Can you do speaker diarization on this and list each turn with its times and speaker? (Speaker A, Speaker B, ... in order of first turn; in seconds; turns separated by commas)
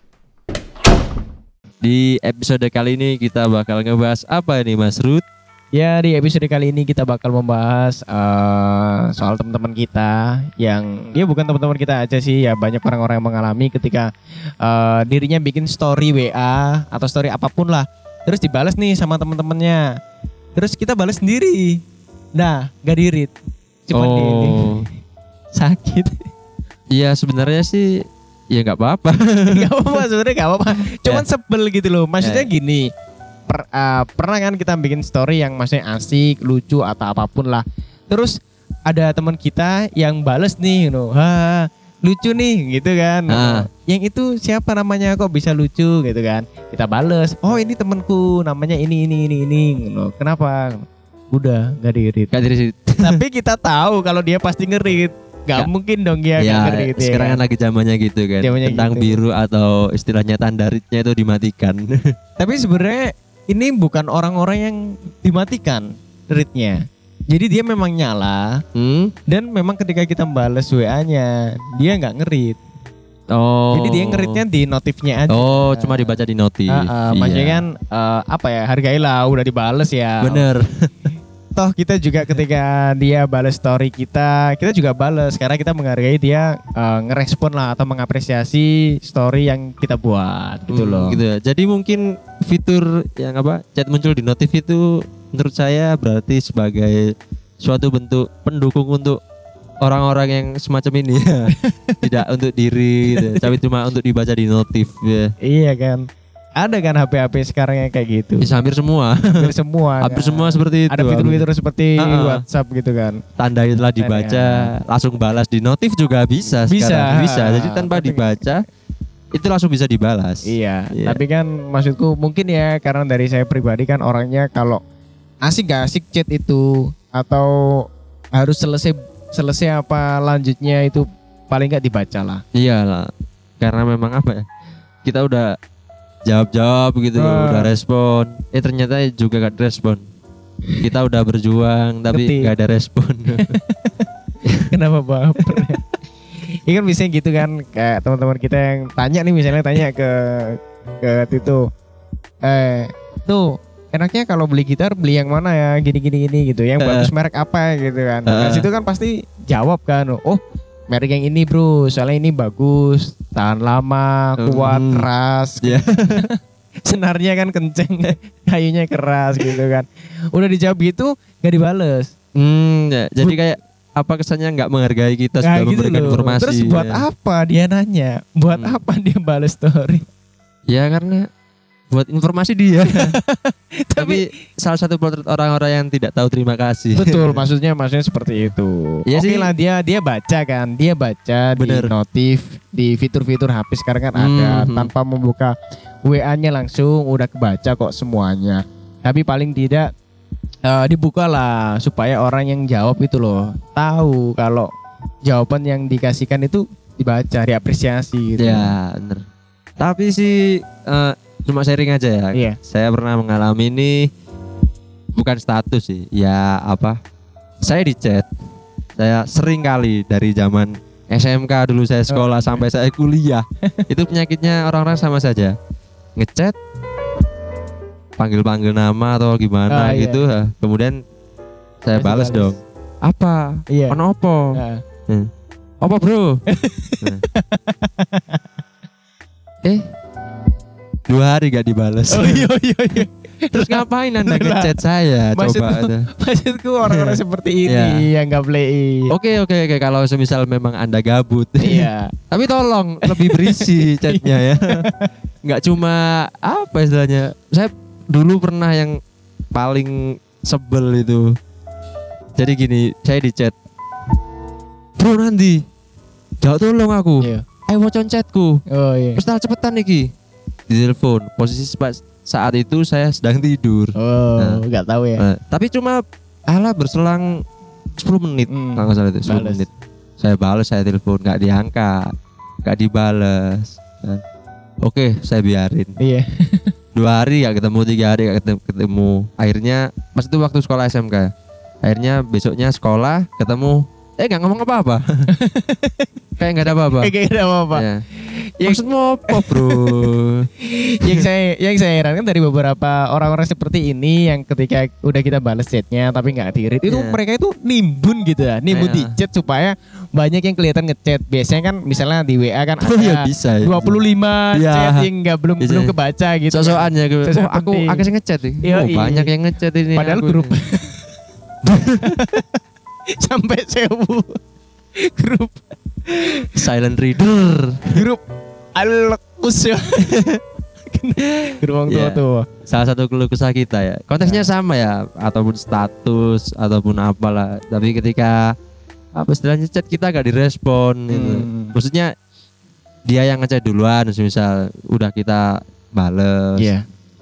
Speaker A: 1.8-5.2, Speaker B: 5.7-14.1, Speaker B: 14.6-19.8, Speaker B: 20.6-21.8, Speaker B: 22.4-23.3, Speaker B: 23.9-24.8, Speaker A: 23.9-24.8, Speaker B: 25.6-26.2, Speaker A: 26.9-27.9, Speaker A: 28.5-29.6, Speaker B: 29.5-32.8, Speaker A: 32.2-32.5, Speaker B: 33.5-38.3, Speaker B: 38.9-52.3, Speaker A: 43.3-43.7, Speaker A: 52.3-53.2, Speaker B: 53.0-57.4, Speaker A: 56.4-62.0, Speaker B: 58.4-59.1, Speaker B: 62.4-68.6, Speaker A: 68.7-69.1, Speaker B: 69.3-72.6, Speaker A: 73.3-74.4, Speaker B: 73.7-76.1, Speaker A: 75.3-77.6, Speaker B: 76.7-80.4, Speaker A: 80.2-81.1, Speaker B: 81.5-91.2, Speaker A: 90.7-97.0, Speaker A: 97.6-99.2, Speaker A: 99.8-105.3, Speaker B: 101.6-102.0, Speaker B: 103.1-103.5, Speaker B: 105.4-106.0, Speaker B: 106.6-108.5, Speaker A: 108.4-109.5, Speaker B: 109.3-113.2, Speaker A: 110.0-111.4, Speaker A: 112.0-112.4, Speaker A: 113.4-118.6, Speaker B: 114.0-114.7, Speaker B: 116.7-118.4, Speaker A: 119.3-121.2, Speaker B: 120.4-124.8, Speaker B: 125.5-127.8, Speaker B: 128.4-132.4, Speaker A: 132.5-133.1, Speaker A: 133.6-134.4, Speaker A: 135.0-135.4, Speaker A: 136.2-140.0, Speaker B: 137.2-137.7, Speaker A: 140.8-143.6, Speaker B: 142.1-142.5, Speaker B: 143.3-143.9, Speaker B: 144.7-145.8, Speaker B: 146.7-151.6, Speaker B: 152.4-172.1, Speaker A: 156.8-157.1, Speaker A: 158.3-158.7, Speaker A: 164.4-165.1, Speaker A: 165.6-166.2, Speaker A: 172.3-177.0, Speaker B: 175.4-180.0, Speaker A: 180.7-181.2, Speaker A: 181.9-183.1, Speaker B: 182.9-184.2, Speaker A: 184.0-187.4, Speaker B: 187.0-195.5, Speaker A: 189.1-189.5, Speaker A: 191.6-191.9, Speaker A: 194.1-194.9, Speaker B: 196.1-199.9, Speaker B: 200.6-204.7, Speaker B: 205.2-208.7, Speaker A: 208.4-209.2, Speaker A: 209.8-214.1, Speaker B: 212.3-212.6, Speaker A: 215.2-217.0, Speaker A: 217.6-218.3, Speaker A: 219.0-225.5, Speaker B: 222.1-222.6, Speaker A: 226.2-226.6, Speaker A: 228.2-230.9, Speaker B: 229.7-230.2, Speaker A: 231.8-234.6, Speaker B: 231.9-232.6, Speaker B: 233.7-234.0, Speaker B: 234.5-234.8, Speaker A: 235.8-236.4, Speaker B: 236.5-238.4, Speaker A: 241.1-242.5, Speaker B: 242.1-244.8, Speaker A: 243.5-246.1, Speaker B: 245.3-249.1, Speaker A: 246.9-248.0, Speaker A: 249.1-254.6, Speaker B: 251.6-252.1, Speaker B: 253.0-255.1, Speaker A: 255.4-258.9, Speaker A: 259.5-261.3, Speaker A: 262.4-263.5, Speaker A: 265.0-265.6, Speaker A: 266.4-268.6, Speaker B: 268.7-269.2, Speaker A: 269.1-270.1, Speaker A: 270.7-274.6, Speaker B: 273.9-275.2, Speaker A: 275.2-277.2, Speaker A: 278.0-282.1, Speaker B: 278.5-279.6, Speaker A: 282.6-284.2, Speaker A: 284.8-285.9, Speaker B: 286.0-286.7, Speaker A: 286.9-291.3, Speaker A: 291.8-295.3, Speaker B: 295.3-296.1, Speaker A: 296.4-297.1, Speaker B: 296.6-318.0, Speaker A: 297.7-298.0, Speaker A: 298.6-300.5, Speaker A: 306.9-307.2, Speaker A: 308.7-309.1, Speaker A: 312.8-314.0, Speaker A: 314.5-315.1, Speaker A: 315.6-315.9, Speaker A: 316.5-320.5, Speaker B: 318.6-319.3, Speaker B: 319.9-321.1, Speaker A: 321.6-322.2, Speaker B: 322.0-322.5, Speaker B: 323.2-324.4, Speaker B: 325.0-326.6, Speaker A: 326.6-327.9, Speaker B: 327.9-328.2, Speaker B: 328.8-330.3, Speaker B: 330.9-332.5, Speaker A: 331.9-338.4, Speaker B: 334.2-334.5, Speaker A: 339.1-342.1, Speaker B: 341.1-341.8, Speaker A: 343.1-346.7, Speaker B: 346.6-346.8